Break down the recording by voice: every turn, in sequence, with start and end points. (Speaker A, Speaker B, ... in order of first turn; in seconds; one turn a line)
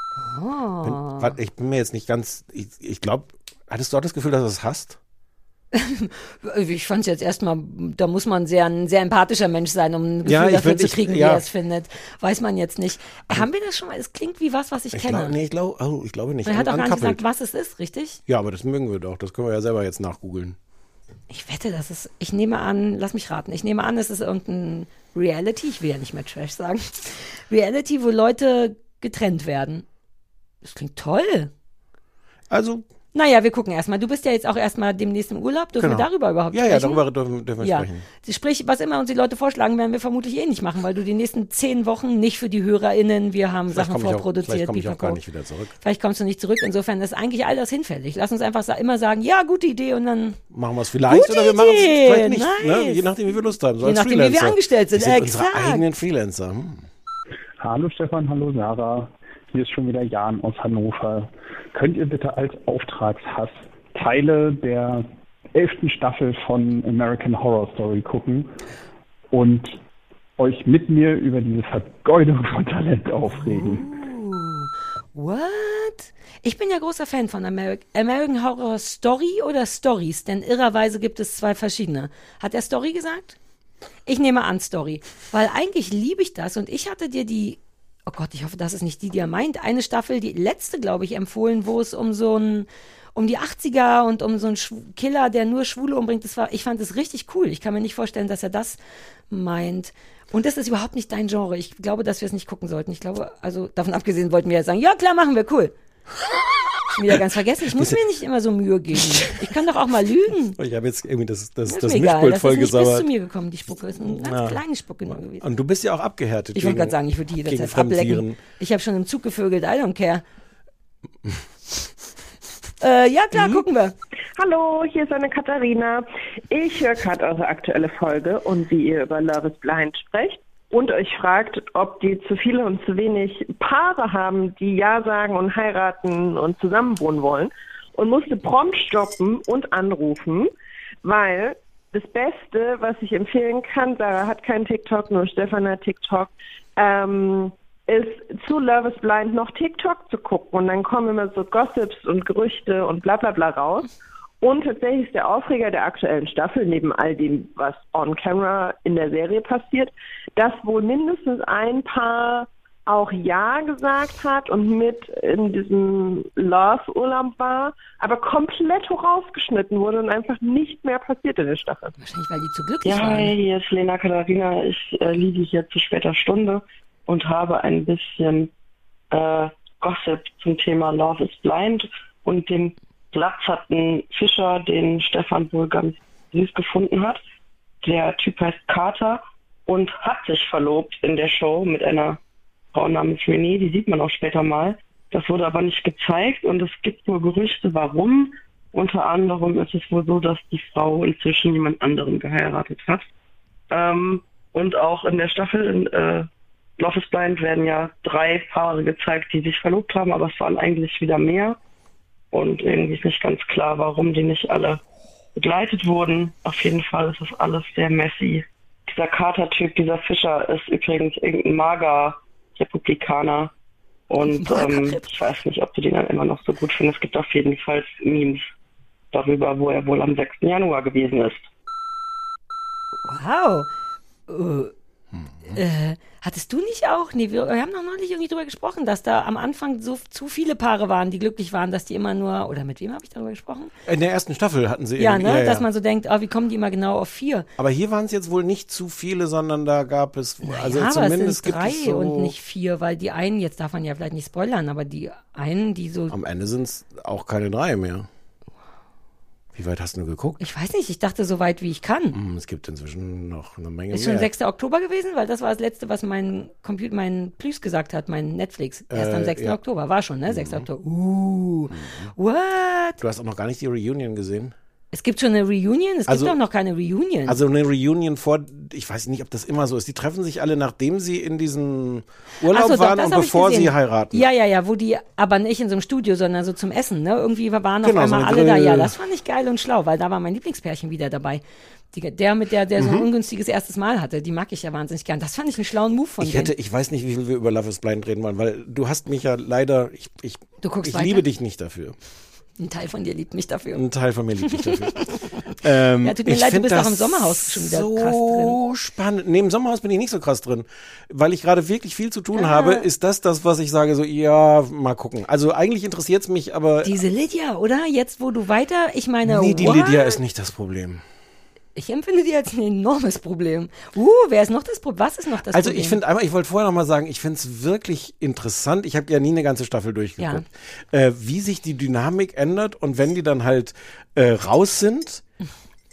Speaker A: 0.2-1.3
Speaker B: 0.8-5.0
Speaker A: 5.7-15.4
Speaker B: 10.2-11.4
Speaker B: 14.9-17.2
Speaker A: 16.4-18.2
Speaker B: 18.3-20.6
Speaker A: 21.3-29.9
Speaker A: 30.6-31.5
Speaker B: 32.5-32.9
Speaker A: 33.1-37.0
Speaker B: 35.8-38.1
Speaker A: 37.6-45.2
Speaker B: 43.7-45.7
Speaker A: 45.8-50.4
Speaker B: 50.5-56.9
Speaker A: 51.1-53.1
Speaker A: 53.8-55.8
Speaker C: 57.6-68.5
Speaker C: 69.3-69.8
Speaker C: 70.4-73.9
Speaker A: 73.5-83.4
Speaker A: 84.1-98.8
Speaker A: 99.3-105.7
Speaker A: 106.9-110.6
Speaker B: 109.0-109.3
Speaker B: 110.6-113.1
Speaker A: 111.7-115.4
Speaker B: 114.0-114.6
Speaker B: 115.4-118.4
Speaker A: 116.5-120.2
Speaker A: 122.8-124.0
Speaker B: 123.3-123.6
Speaker D: 124.4-140.5
Speaker D: 141.0-153.9
Speaker D: 154.4-172.0
Speaker A: 172.0-173.3
Speaker E: 172.8-178.5
Speaker E: 179.1-187.2
Speaker E: 187.8-192.2
Speaker E: 192.7-203.1
Speaker E: 203.7-211.6
Speaker E: 212.3-214.8
Speaker E: 215.4-223.5
Speaker E: 224.1-228.4
Speaker A: 224.4-225.1
Speaker E: 229.1-231.4
Speaker A: 233.1-233.7
Speaker A: 234.3-234.7
Speaker B: 235.2-235.6
Speaker A: 235.5-243.7
Speaker B: 243.9-245.7
Speaker A: 245.0-247.5
Speaker B: 247.6-252.3
Speaker A: 250.4-256.1
Speaker B: 256.1-258.1
Speaker B: 259.6-260.4
Speaker A: 260.4-262.2
Speaker B: 262.1-264.3
Speaker A: 263.9-273.0
Speaker B: 268.9-269.6
Speaker B: 270.3-270.7
Speaker B: 271.7-272.1
Speaker B: 273.0-274.5
Speaker A: 274.9-277.4
Speaker B: 276.1-276.4
Speaker B: 277.3-284.3
Speaker A: 282.5-296.5
Speaker B: 287.8-288.9
Speaker B: 292.8-293.1
Speaker B: 296.2-302.0
Speaker A: 300.6-301.3
Speaker A: 302.6-303.8
Speaker B: 303.7-317.0
Speaker A: 304.5-304.8
Speaker A: 306.0-308.6
Speaker A: 312.3-312.9
Speaker A: 316.8-320.2
Speaker B: 319.2-321.0
Speaker A: 321.8-326.0
Speaker B: 325.5-335.2
Speaker A: 330.2-330.4